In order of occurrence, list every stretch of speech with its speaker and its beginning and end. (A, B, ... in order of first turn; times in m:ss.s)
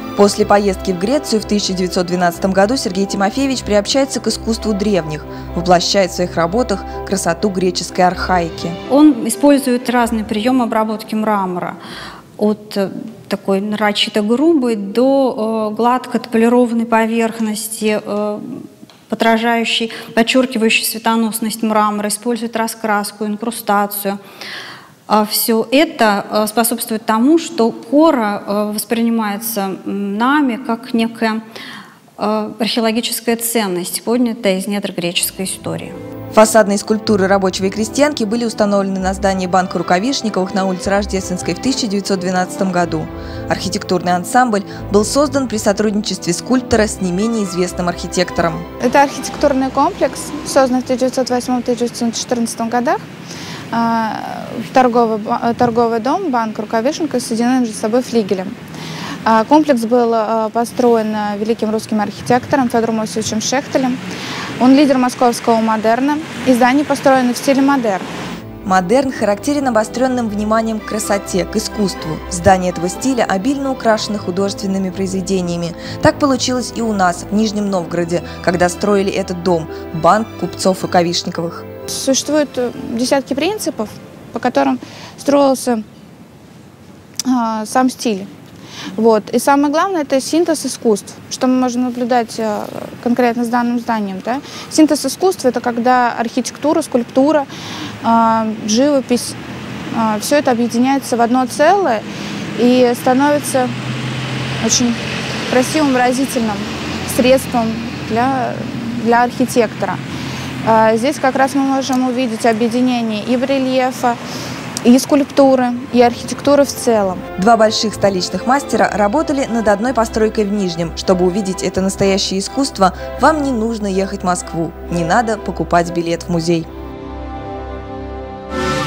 0:00.2-0:08.8 A
0:08.9-0:11.8 B
0:12.4-0:24.2 B
0:25.1-0:31.4 B
0:32.2-0:36.0 B
0:36.3-0:48.7 A
0:48.8-0:53.0 C
0:53.7-0:58.5 C
0:59.2-1:04.0 C
1:04.6-1:08.1 C
1:08.6-1:21.7 A
1:21.9-1:25.8 C
1:27.2-1:28.3 C
1:29.0-1:37.5 C
1:38.0-1:39.4 C
1:39.9-1:42.0 C
1:42.6-1:43.7 C
1:44.6-1:45.0 C
1:45.5-1:50.0 C
1:50.6-1:54.2 C
1:54.8-1:57.2 C
1:57.4-2:06.7 A